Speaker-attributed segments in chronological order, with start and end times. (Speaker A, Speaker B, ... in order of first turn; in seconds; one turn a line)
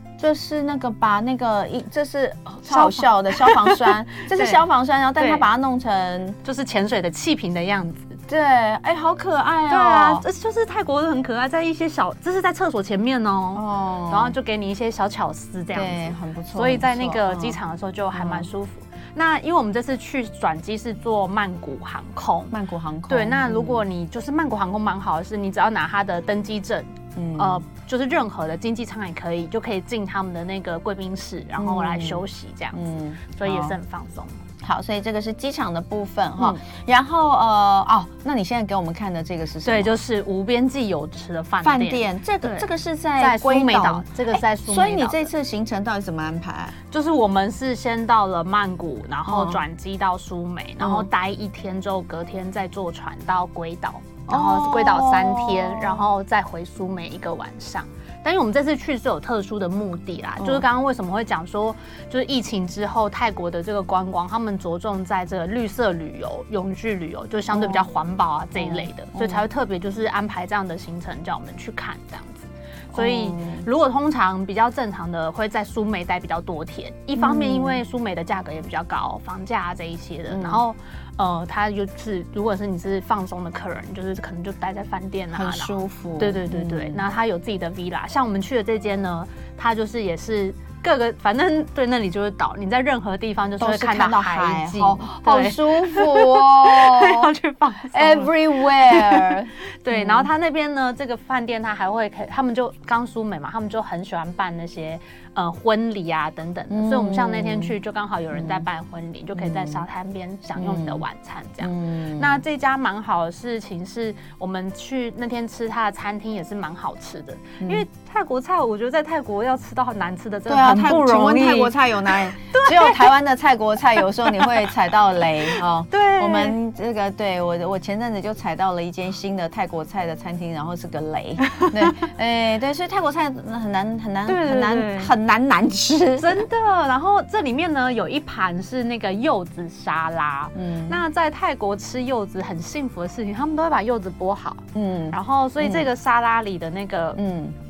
Speaker A: 0.2-6.4
Speaker B: 2.7-4.6
Speaker B: 5.2-5.5
Speaker B: 6.4-8.2
Speaker A: 8.3-10.2
Speaker B: 9.7-22.5
Speaker A: 13.5-14.3
Speaker A: 15.7-17.6
Speaker A: 18.1-18.5
Speaker A: 22.5-23.8
Speaker B: 23.1-32.8
Speaker A: 27.1-27.6
Speaker A: 31.6-33.8
Speaker B: 33.3-34.3
Speaker A: 34.6-40.0
Speaker B: 39.6-42.7
Speaker A: 41.6-46.7
Speaker B: 43.2-45.3
Speaker B: 46.9-123.2
Speaker A: 49.3-49.6
Speaker A: 50.8-51.1
Speaker A: 54.3-56.1
Speaker A: 60.4-60.6
Speaker A: 67.5-67.9
Speaker A: 68.6-69.4
Speaker A: 72.9-73.7
Speaker A: 77.2-77.8
Speaker A: 80.3-80.6
Speaker A: 85.3-87.0
Speaker A: 93.6-97.3
Speaker A: 97.9-100.3
Speaker A: 106.7-107.7
Speaker A: 108.3-108.7
Speaker A: 109.3-109.8
Speaker A: 110.6-111.0
Speaker A: 111.6-112.4
Speaker A: 120.5-136.4
Speaker B: 124.0-124.7
Speaker B: 125.5-126.5
Speaker B: 131.4-131.7
Speaker B: 134.2-135.1
Speaker B: 136.2-147.2
Speaker A: 140.5-141.0
Speaker A: 144.7-145.9
Speaker A: 147.2-147.5